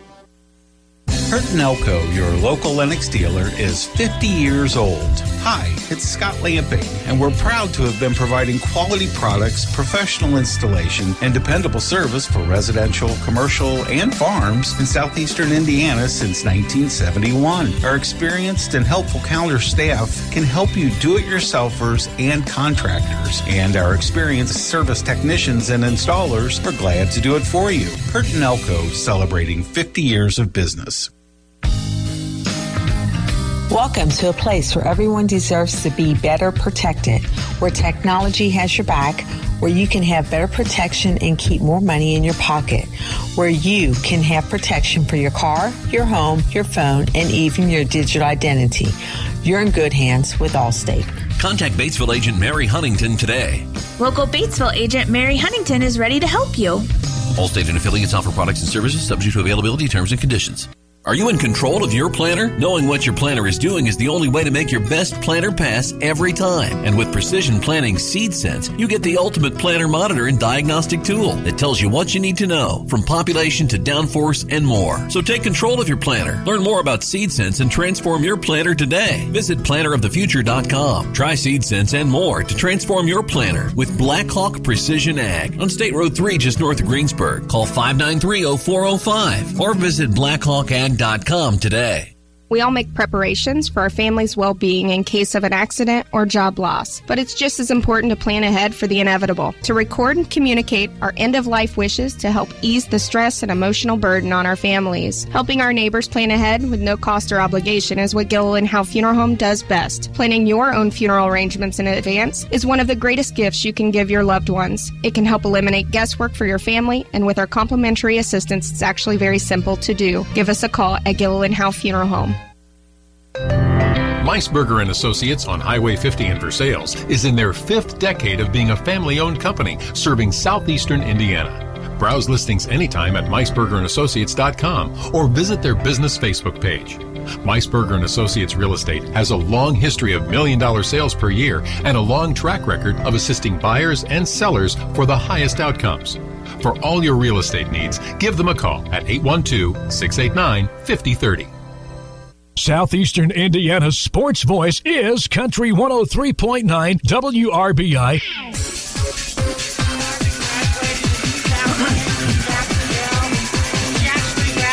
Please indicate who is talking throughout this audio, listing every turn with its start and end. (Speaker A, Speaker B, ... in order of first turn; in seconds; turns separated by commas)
Speaker A: 1.3-31.1, Speaker B: 33.7-51.2, Speaker C: 51.4-53.6, Speaker D: 54.0-56.9, Speaker C: 57.3-92.1, Speaker E: 92.5-122.3, Speaker F: 124.2-151.5, Speaker G: 152.6-158.2